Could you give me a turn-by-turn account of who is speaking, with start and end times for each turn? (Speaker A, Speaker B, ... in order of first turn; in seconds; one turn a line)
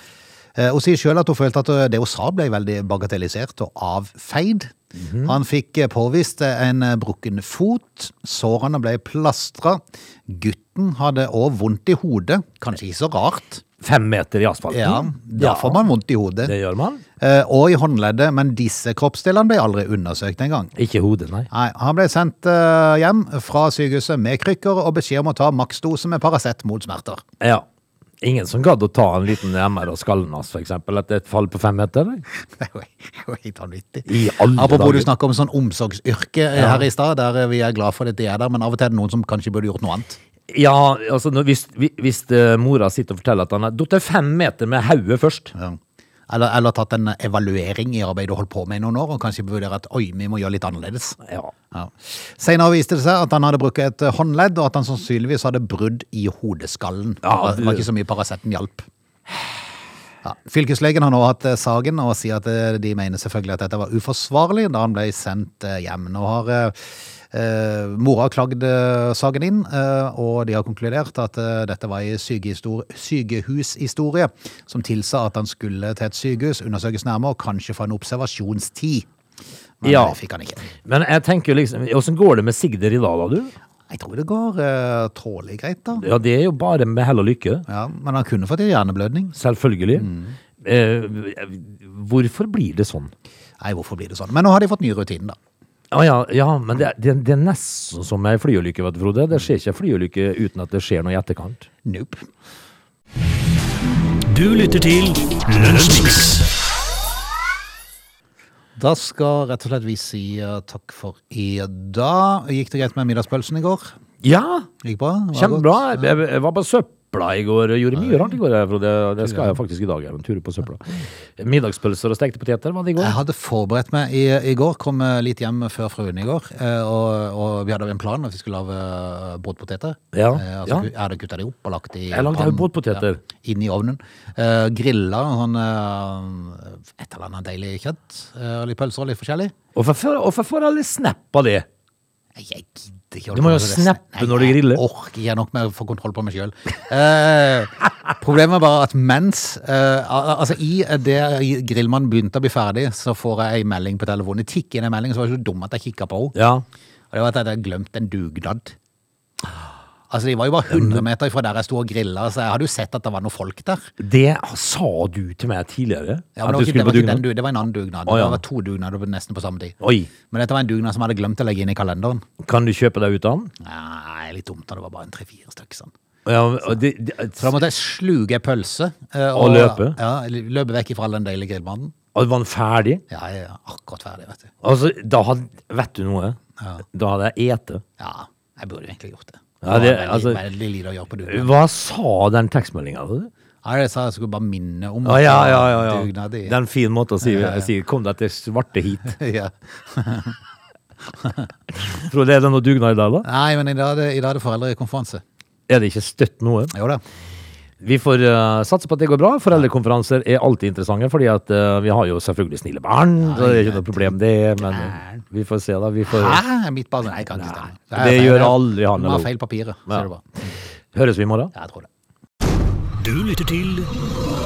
Speaker A: 0.6-13.6
Speaker B: 5.0-5.3
Speaker B: 13.8-15.8
Speaker A: 14.7-16.5
Speaker B: 16.4-17.0
Speaker A: 17.2-20.7
Speaker B: 20.8-21.5
Speaker A: 21.5-27.2
Speaker B: 27.4-27.6
Speaker B: 28.2-32.2
Speaker A: 32.6-40.2
Speaker B: 34.0-35.1
Speaker B: 36.5-36.9
Speaker B: 40.5-45.5
Speaker A: 45.5-51.2
Speaker B: 51.2-51.5
Speaker A: 51.7-58.9
Speaker B: 57.2-57.9
Speaker A: 60.2-79.1
Speaker A: 79.8-80.7
Speaker B: 79.8-80.2
Speaker B: 80.7-83.5
Speaker A: 83.9-86.1
Speaker B: 86.0-87.6
Speaker A: 87.7-89.3
Speaker B: 89.3-93.1
Speaker A: 90.0-90.3
Speaker A: 93.6-95.4
Speaker B: 95.9-101.7
Speaker A: 101.8-102.2
Speaker C: 104.2-106.5
Speaker A: 108.8-113.9
Speaker B: 114.2-114.7
Speaker A: 114.8-116.1
Speaker B: 115.3-123.1
Speaker A: 118.0-118.2
Speaker A: 119.2-119.6
Speaker A: 123.0-139.5
Speaker B: 130.1-130.9
Speaker B: 132.1-133.2
Speaker B: 139.7-141.7
Speaker A: 142.3-156.3
Speaker B: 143.3-144.8
Speaker B: 156.3-156.7
Speaker A: 157.1-158.8
Speaker A: 160.1-163.9
Speaker B: 160.7-161.0
Speaker B: 164.0-167.2
Speaker A: 166.3-169.8
Speaker B: 168.1-168.4
Speaker B: 169.8-170.1
Speaker A: 170.3-172.2
Speaker B: 172.4-173.5
Speaker A: 173.6-175.9
Speaker B: 176.2-177.5
Speaker A: 177.3-181.9
Speaker B: 179.3-180.0
Speaker B: 182.1-183.0
Speaker A: 183.1-184.5
Speaker B: 184.6-186.4
Speaker B: 186.9-187.8
Speaker A: 188.0-191.5
Speaker B: 189.6-190.4
Speaker B: 191.2-193.3
Speaker A: 193.6-196.6
Speaker B: 195.0-199.2
Speaker A: 197.2-197.7
Speaker A: 199.1-200.4
Speaker A: 201.2-201.4
Speaker B: 201.7-203.3
Speaker A: 203.2-205.2
Speaker B: 205.7-206.7
Speaker A: 206.7-207.0
Speaker B: 207.8-216.4
Speaker A: 213.2-215.2
Speaker A: 216.1-220.5
Speaker B: 217.3-219.3
Speaker B: 220.9-221.5
Speaker A: 221.5-221.9
Speaker C: 223.0-223.9